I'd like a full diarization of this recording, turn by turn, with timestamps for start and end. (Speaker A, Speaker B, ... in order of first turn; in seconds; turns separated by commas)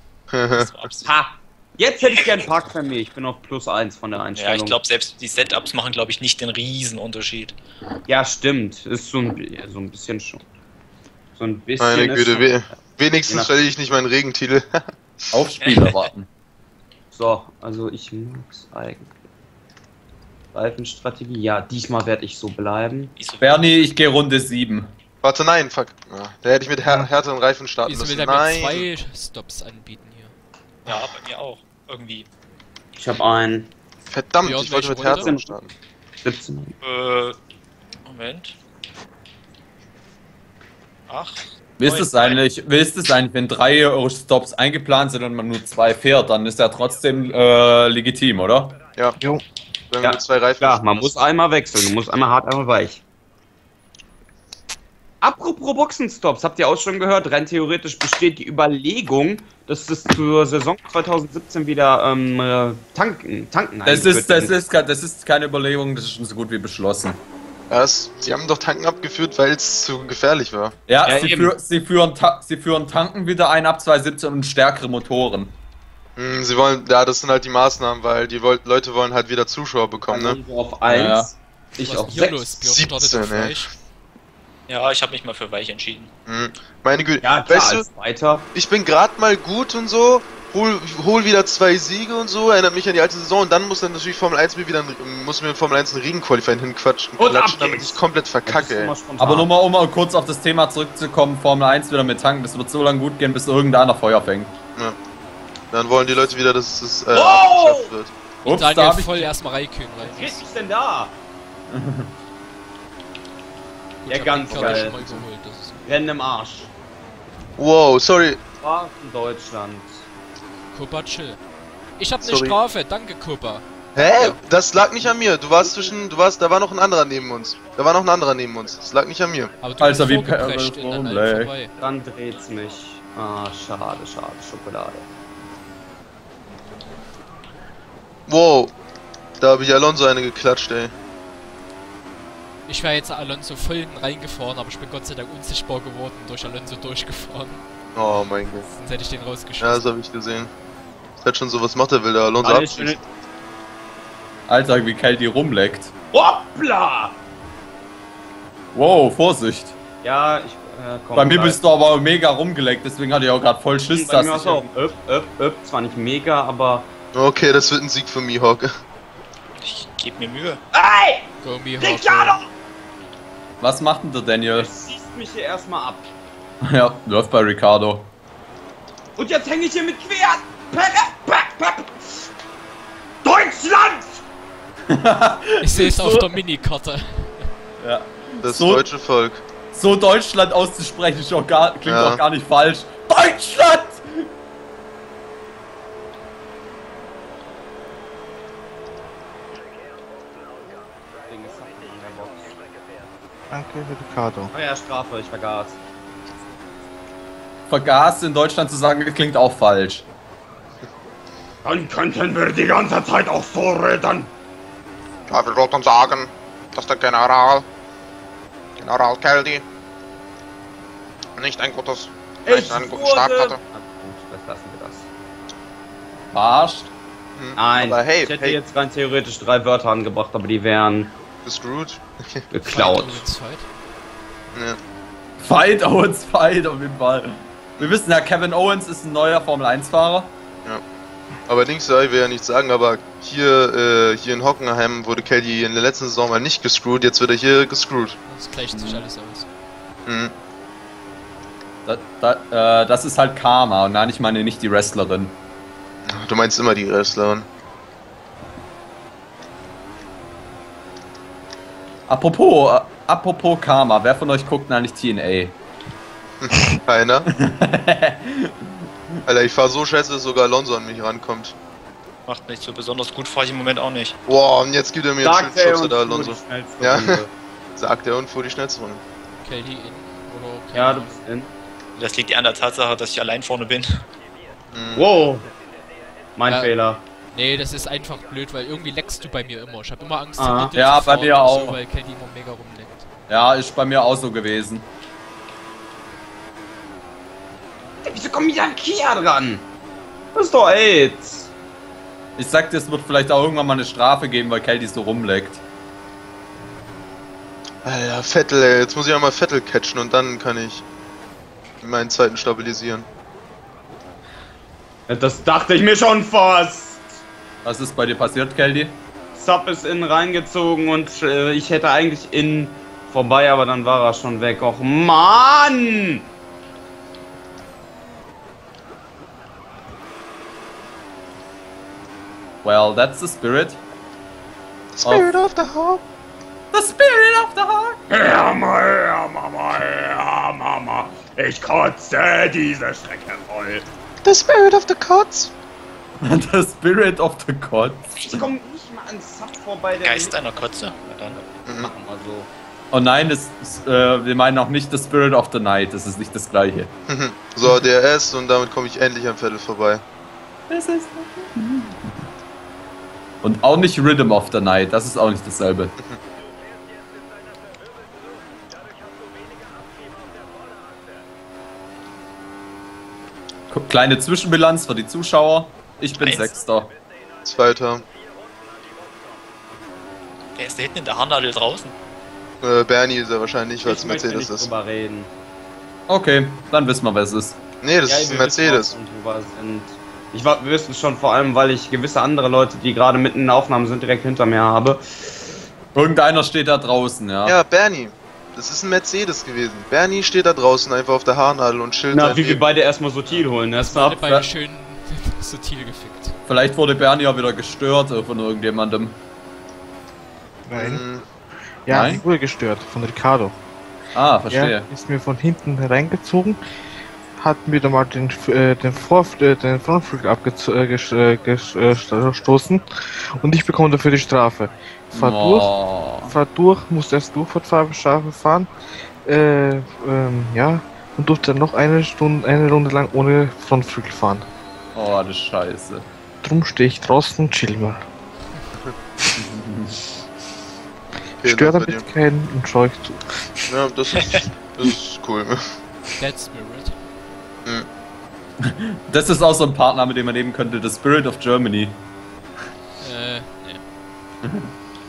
Speaker A: 0.3-0.7, Speaker B: 0.6-1.1, Speaker C: 1.0-4.8, Speaker B: 4.3-7.6, Speaker C: 8.1-10.4, Speaker C: 11.4-13.5, Speaker A: 11.8-15.3, Speaker D: 15.3-16.3, Speaker B: 15.6-16.1, Speaker C: 17.1-19.2, Speaker C: 20.5-23.1, Speaker B: 23.2-23.8, Speaker D: 23.4-24.9, Speaker A: 25.2-28.9, Speaker E: 26.9-27.1, Speaker F: 27.9-30.3, Speaker B: 30.9-32.3, Speaker C: 33.0-33.7, Speaker A: 34.1-35.7, Speaker F: 34.4-35.3, Speaker C: 35.1-35.5, Speaker C: 36.2-36.7, Speaker B: 36.8-37.4, Speaker B: 38.0-38.5, Speaker B: 41.1-42.4, Speaker D: 41.8-48.8, Speaker A: 49.9-51.1, Speaker C: 50.0-53.0, Speaker C: 55.2-64.5, Speaker D: 63.9-67.2, Speaker A: 67.7-70.8, Speaker D: 70.9-75.5, Speaker C: 71.0-71.5, Speaker A: 76.2-80.4, Speaker C: 80.0-81.3, Speaker D: 80.9-82.3, Speaker F: 81.8-83.7, Speaker A: 82.3-83.6, Speaker B: 84.7-86.1, Speaker A: 86.3-87.8, Speaker C: 87.2-88.5, Speaker A: 88.5-99.0, Speaker C: 97.2-99.5, Speaker D: 99.2-104.5, Speaker A: 105.7-108.1, Speaker C: 107.1-107.9, Speaker D: 108.4-109.3, Speaker F: 108.5-110.5, Speaker C: 110.0-111.1, Speaker D: 111.7-112.1, Speaker F: 114.1-115.8, Speaker C: 114.1-115.2, Speaker A: 114.5-115.1, Speaker C: 115.8-116.7, Speaker A: 117.6-118.4, Speaker C: 118.6-120.1, Speaker F: 120.7-121.4, Speaker F: 122.0-124.4, Speaker A: 122.2-122.6, Speaker A: 124.0-129.5, Speaker F: 129.6-131.7, Speaker D: 129.8-131.5, Speaker C: 131.8-135.1, Speaker A: 138.3-138.7, Speaker A: 139.4-140.9, Speaker F: 142.7-147.6, Speaker A: 147.9-148.7, Speaker F: 148.7-149.9, Speaker A: 149.6-150.5, Speaker A: 151.2-153.0, Speaker C: 152.4-153.0, Speaker D: 154.5-155.9, Speaker C: 156.1-157.2, Speaker D: 158.7-159.8, Speaker C: 160.0-161.6, Speaker D: 161.2-164.7, Speaker C: 163.9-166.9, Speaker A: 167.1-168.7, Speaker B: 169.6-170.6, Speaker C: 170.7-171.3, Speaker F: 171.4-172.4, Speaker C: 171.8-172.5, Speaker D: 173.6-174.7, Speaker C: 174.6-176.1, Speaker D: 176.6-178.1, Speaker C: 179.2-182.1, Speaker C: 183.2-184.2, Speaker D: 184.9-186.3, Speaker F: 185.6-187.5, Speaker D: 187.8-188.8, Speaker A: 188.4-189.4, Speaker D: 189.7-194.3, Speaker A: 191.9-192.2, Speaker C: 201.3-202.6, Speaker E: 203.5-204.5, Speaker C: 204.5-205.8, Speaker D: 207.7-210.1, Speaker C: 211.6-214.3, Speaker G: 215.3-217.7, Speaker G: 218.8-219.7, Speaker G: 221.4-223.6, Speaker C: 222.4-225.1, Speaker D: 226.3-226.9, Speaker A: 227.4-228.6, Speaker C: 227.6-231.1, Speaker A: 231.4-232.4, Speaker C: 232.5-233.2, Speaker F: 232.7-233.7, Speaker A: 234.5-234.8, Speaker D: 235.4-240.3, Speaker A: 241.5-248.2, Speaker F: 248.3-249.5, Speaker D: 248.7-249.0, Speaker A: 250.1-250.3, Speaker D: 251.8-255.4, Speaker A: 256.1-257.5, Speaker D: 262.1-265.6, Speaker A: 266.4-267.3, Speaker D: 267.3-269.2, Speaker A: 269.3-271.6, Speaker B: 272.3-274.2, Speaker A: 274.3-277.2, Speaker C: 275.2-277.3, Speaker A: 277.8-279.0, Speaker F: 279.4-281.3, Speaker C: 280.7-281.5, Speaker B: 282.0-284.0, Speaker A: 284.7-285.1, Speaker C: 285.0-285.5, Speaker C: 286.4-287.0, Speaker F: 286.5-286.8, Speaker F: 287.3-293.1, Speaker C: 290.4-290.7, Speaker D: 290.8-291.8, Speaker D: 293.3-294.9, Speaker C: 298.0-299.7, Speaker C: 300.4-301.5, Speaker D: 302.4-305.6, Speaker A: 307.8-310.9, Speaker A: 311.8-313.1, Speaker C: 315.1-317.2, Speaker D: 317.6-319.0, Speaker C: 319.4-326.2, Speaker D: 332.6-333.8, Speaker A: 334.9-336.0, Speaker D: 335.0-335.3, Speaker D: 336.7-338.0, Speaker C: 338.3-343.8, Speaker A: 344.2-345.5, Speaker D: 346.2-348.5, Speaker C: 348.2-350.4, Speaker B: 350.0-351.4, Speaker A: 351.7-351.9, Speaker C: 351.8-352.5, Speaker D: 352.9-356.9, Speaker A: 357.1-360.0, Speaker D: 360.7-362.2, Speaker D: 363.4-366.0, Speaker D: 373.7-376.9, Speaker B: 376.2-376.5, Speaker A: 377.4-378.0, Speaker B: 380.6-381.9, Speaker A: 382.6-384.7, Speaker C: 383.8-385.3, Speaker D: 386.1-387.6, Speaker A: 387.8-388.9, Speaker C: 388.1-395.3, Speaker D: 395.9-397.6, Speaker A: 397.5-402.6, Speaker C: 402.1-404.2, Speaker F: 403.8-406.4, Speaker D: 406.5-409.2, Speaker E: 410.7-411.0, Speaker A: 410.8-411.3, Speaker E: 411.9-413.6, Speaker D: 411.9-412.2, Speaker D: 414.1-414.9, Speaker E: 414.5-416.6, Speaker E: 417.4-422.9, Speaker E: 423.4-428.7, Speaker D: 425.1-426.3, Speaker E: 429.2-434.5, Speaker D: 434.9-436.1, Speaker E: 436.4-438.0, Speaker D: 439.4-440.0, Speaker A: 441.4-442.0, Speaker E: 441.4-443.8, Speaker A: 443.7-445.6, Speaker F: 446.2-447.0, Speaker D: 448.6-452.0, Speaker F: 453.0-453.8, Speaker D: 454.4-454.7